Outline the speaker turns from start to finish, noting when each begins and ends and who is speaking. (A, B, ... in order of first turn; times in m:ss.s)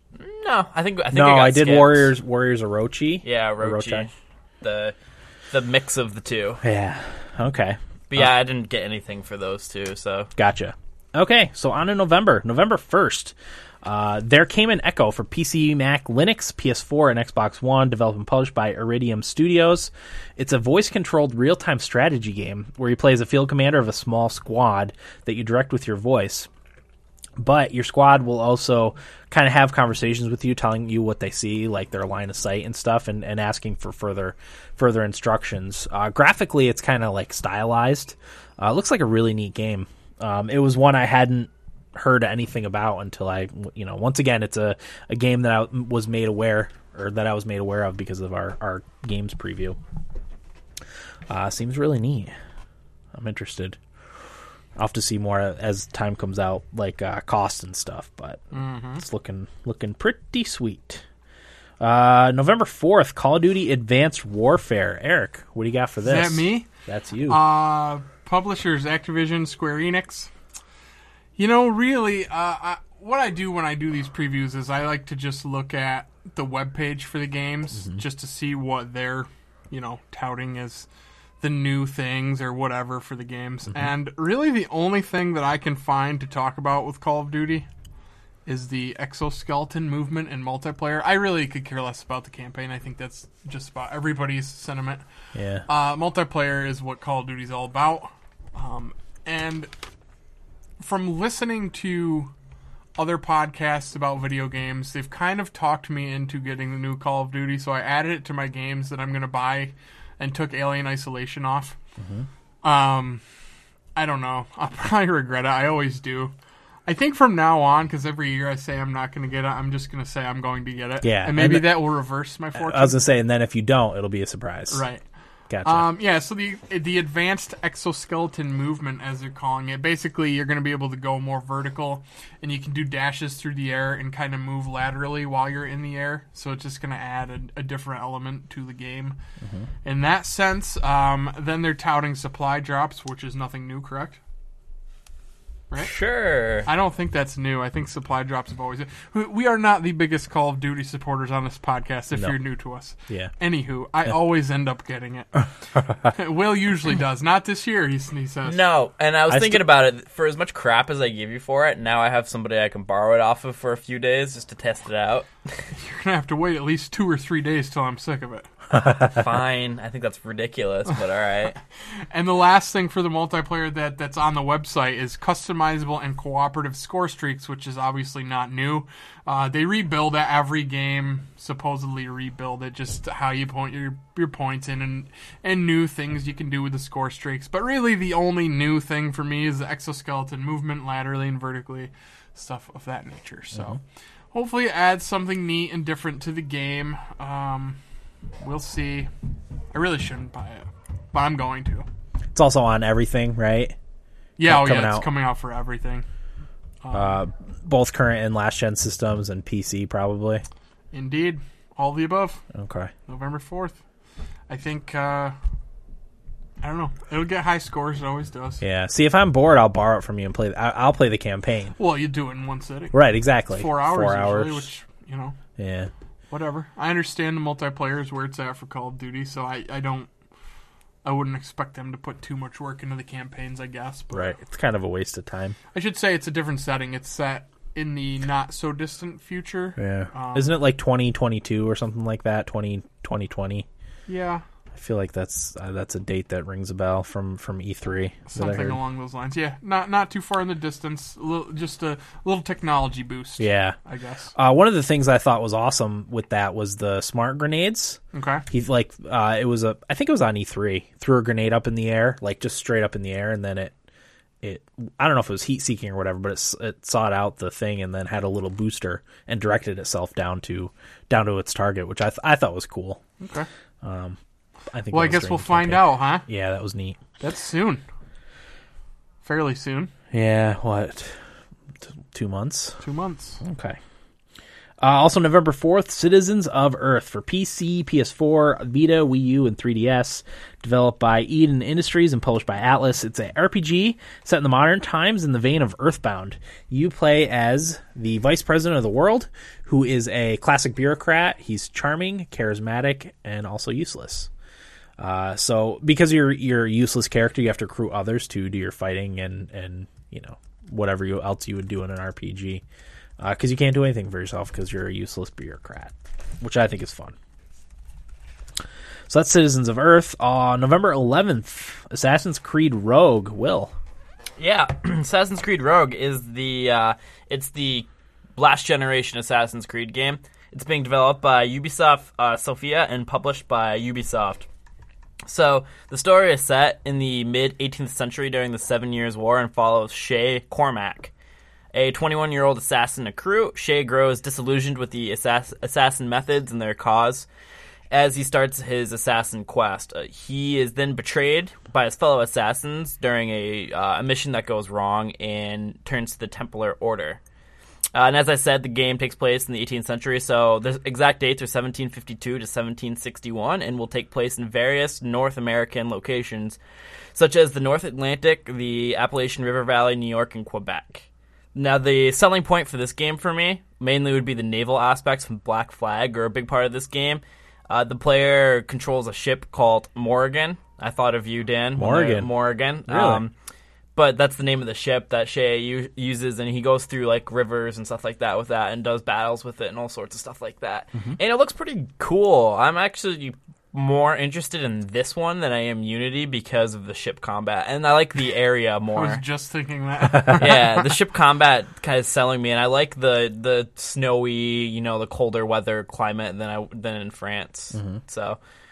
0:00.2-0:02.1 A
0:01.1-0:04.1 B
0:03.2-0:04.1 A
0:04.6-0:05.0 A
0:05.5-0:06.6 A
0:06.6-0:08.3 B
0:08.1-0:10.3 A
0:10.4-0:26.5 B
0:27.4-0:49.8 B
0:51.3-0:52.3 B
0:53.1-0:53.8 B
0:54.8-0:58.4 B
0:58.5-0:59.0 C
0:59.0-1:01.0 B
1:01.8-1:07.4 B
1:06.0-1:06.7 C
1:07.3-1:10.3 C
1:11.4-1:20.9 C
1:21.4-1:27.7 C
1:28.5-1:35.0 C
1:35.4-1:35.6 B
1:35.7-1:39.7 C
1:40.8-1:42.3 C
1:43.0-1:51.8 C
1:52.0-1:52.3 B
1:52.6-1:53.2 C
1:54.0-1:56.3 C
1:56.9-2:03.0 C
2:01.0-2:01.8 B
2:02.6-2:04.8 B
2:04.7-2:05.0 C
2:05.5-2:05.9 B
2:05.6-2:19.2 C
2:19.4-2:19.7 B
2:19.8-2:24.2 C
2:25.8-2:26.7 A
2:26.7-2:35.5 C
2:36.0-2:38.6 C
2:38.4-2:45.7 A
2:39.3-2:39.6 B
2:45.8-2:48.5 C
2:48.7-2:49.1 B
2:49.0-2:51.6 A
2:52.1-3:13.8 C
3:14.3-3:17.8 C
3:18.4-3:19.1 C
3:19.7-3:21.9 C
3:22.4-3:23.8 B
3:24.4-3:26.0 C
3:24.4-3:25.1 B
3:26.8-3:27.2 C
3:26.9-3:30.4 B
3:30.9-3:32.4 C
3:32.5-3:32.9 B
3:33.1-3:33.8 C
3:34.5-3:35.4 C
3:36.6-3:38.6 C
3:38.6-3:41.8 B
3:41.8-3:45.4 C
3:42.9-3:44.7 B
3:45.6-3:45.9 B
3:46.3-3:50.1 C
3:51.0-3:54.4 C
3:54.1-3:55.6 B
3:55.7-4:00.6 C
3:59.8-4:03.7 B
4:04.1-4:04.4 C
4:04.7-4:08.8 B
4:08.3-4:14.3 C
4:13.4-4:13.8 B
4:14.4-4:23.7 B
4:18.1-4:18.4 C
4:24.4-4:33.0 B
4:33.2-4:33.5 C
4:33.8-4:34.2 B
4:34.7-4:37.0 B
4:34.9-4:36.3 C
4:37.2-4:37.8 C
4:39.2-4:39.9 C
4:40.1-4:41.2 B
4:42.1-4:42.8 B
4:42.8-4:43.4 C
4:43.4-4:43.8 B
4:44.8-5:04.3 B
5:05.0-5:12.6 B
5:13.2-5:17.2 B
5:19.1-5:23.7 B
5:24.4-5:34.5 A
5:35.3-5:41.1 A
5:41.7-5:47.3 A
5:47.9-5:57.2 A
5:57.9-6:06.6 A
6:07.1-6:23.3 A
6:21.8-6:23.2 B
6:24.0-6:39.2 A
6:38.9-6:40.9 C
6:40.3-6:48.4 A
6:47.7-6:48.0 B